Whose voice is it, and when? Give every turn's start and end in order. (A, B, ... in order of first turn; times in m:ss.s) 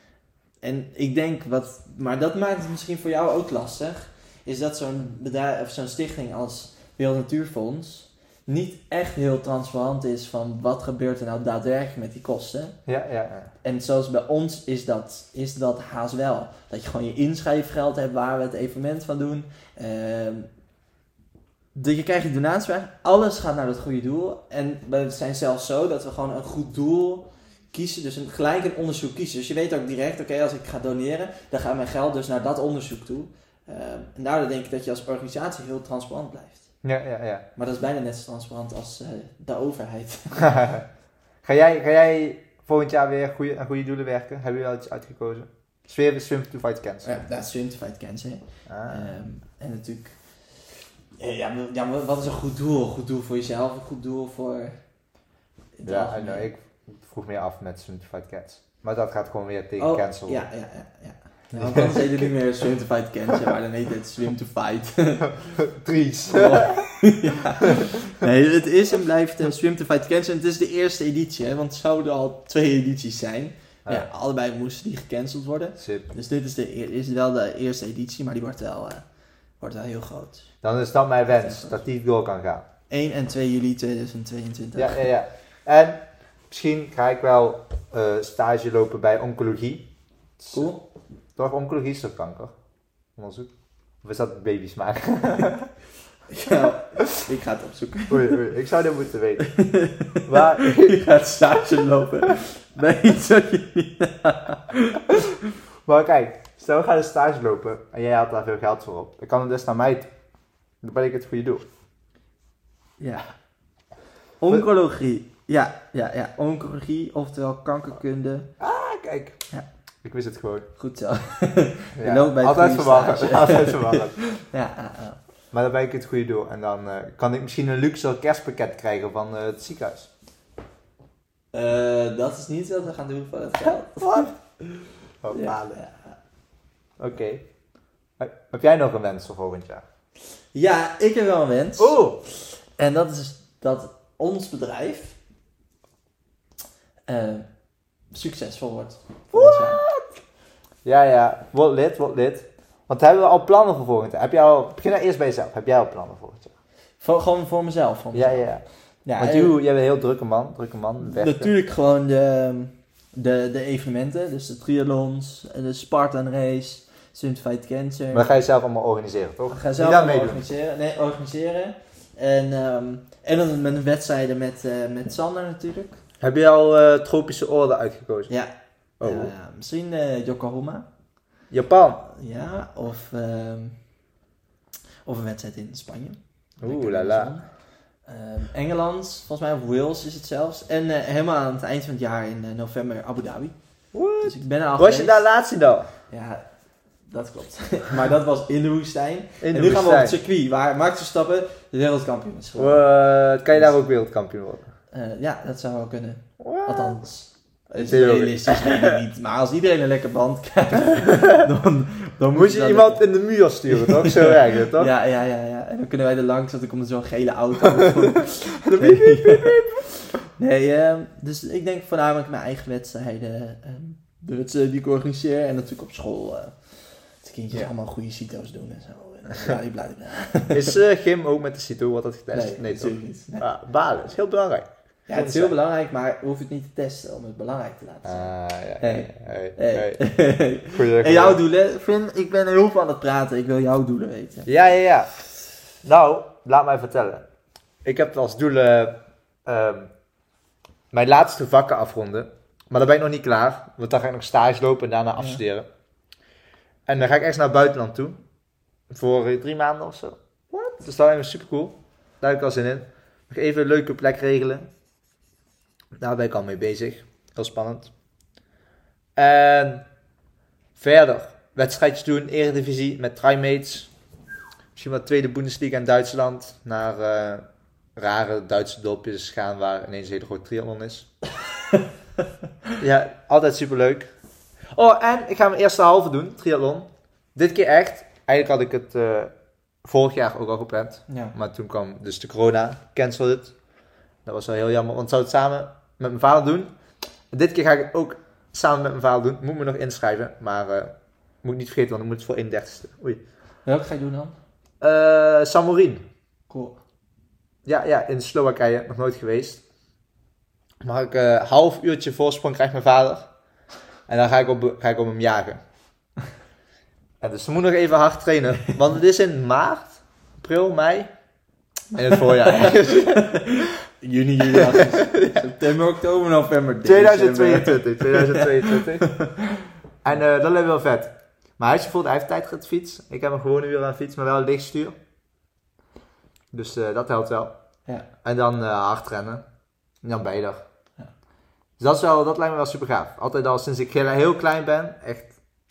0:00.6-0:12.8 A
0:12.8-0:13.5 B
0:13.6-0:20.5 A
0:21.7-0:36.7 A
0:36.8-0:37.4 B
0:37.6-0:40.6 A
0:40.4-0:40.8 B
0:41.4-0:47.2 B
0:47.0-0:54.8 A
0:48.7-0:49.1 B
0:55.8-0:56.5 A
0:55.8-1:00.5 B
0:59.8-1:05.4 A
1:01.5-1:02.3 B
1:05.6-1:06.8 B
1:06.3-1:19.0 A
1:15.8-1:16.1 B
1:19.6-1:20.5 A
1:20.6-1:22.6 B
1:21.4-1:21.8 A
1:22.9-1:25.0 A
1:24.8-1:29.9 B
1:30.4-1:30.7 B
1:30.5-1:30.8 A
1:31.4-1:32.6 B
1:33.1-1:33.5 B
1:34.0-1:35.7 B
1:36.3-1:38.4 A
1:38.1-1:39.6 B
1:39.4-1:45.1 A
1:40.2-1:41.0 B
1:45.8-1:50.1 B
1:50.8-1:51.6 B
1:53.0-1:53.3 A
1:54.4-1:58.5 A
1:58.6-1:59.4 B
2:00.0-2:00.7 B
2:00.8-2:05.2 A
2:02.0-2:04.2 B
2:05.5-2:10.1 B
2:11.5-2:14.4 A
2:14.0-2:14.3 B
2:15.2-2:15.8 B
2:15.3-2:16.2 A
2:17.0-2:17.4 B
2:18.2-2:19.8 B
2:20.5-2:25.2 A
2:21.8-2:22.2 B
2:27.1-2:27.5 A
2:28.1-2:29.8 A
2:29.3-2:30.1 B
2:30.8-2:36.5 B
2:37.0-2:39.5 A
2:38.1-2:38.6 B
2:39.2-2:41.5 B
2:41.0-2:48.2 A
2:48.1-2:50.4 B
2:49.5-2:56.0 A
2:56.2-2:58.3 B
2:58.3-3:00.8 A
2:59.0-2:59.3 B
3:01.5-3:02.0 B
3:02.0-3:03.8 A
3:05.0-3:07.5 A
3:06.6-3:07.3 B
3:08.0-3:13.5 A
3:13.9-3:15.9 B
3:14.2-3:15.2 A
3:16.1-3:16.4 A
3:17.1-3:22.9 A
3:19.4-3:20.2 B
3:22.6-3:24.7 B
3:24.9-3:33.0 A
3:26.4-3:27.0 B
3:27.8-3:29.0 B
3:31.1-3:31.4 B
3:32.3-3:34.9 B
3:33.7-3:50.8 A
3:38.7-3:39.8 B
3:50.5-3:55.5 B
3:52.3-3:53.5 A
3:55.1-4:04.5 A
3:58.0-4:00.0 B
4:00.7-4:01.4 B
4:04.5-4:05.2 B
4:05.8-4:07.3 B
4:07.8-4:09.9 B
4:10.9-4:15.6 B
4:16.8-4:18.2 B
4:18.9-4:20.2 B
4:20.8-4:24.7 B
4:26.0-4:27.9 B
4:29.2-4:29.8 B
4:30.8-4:33.9 B
4:34.7-4:37.4 B
4:38.0-4:41.1 B
4:42.8-4:44.1 B
4:44.7-4:49.3 B
4:49.8-4:53.6 B
4:51.1-4:51.3 A
4:54.2-4:56.7 B
4:57.3-5:03.2 B
5:03.6-5:04.3 A
5:04.8-5:06.0 B
5:06.5-5:06.8 A
5:07.6-5:09.6 B
5:10.8-5:13.3 B
5:14.1-5:15.6 B
5:17.2-5:21.1 B
5:21.9-5:23.5 B
5:22.5-5:29.5 A
5:24.5-5:25.4 B
5:26.8-5:29.3 B
5:30.0-5:35.0 B
5:36.5-5:37.5 B
5:38.2-5:39.4 B
5:40.0-5:40.6 B
5:41.8-5:45.4 B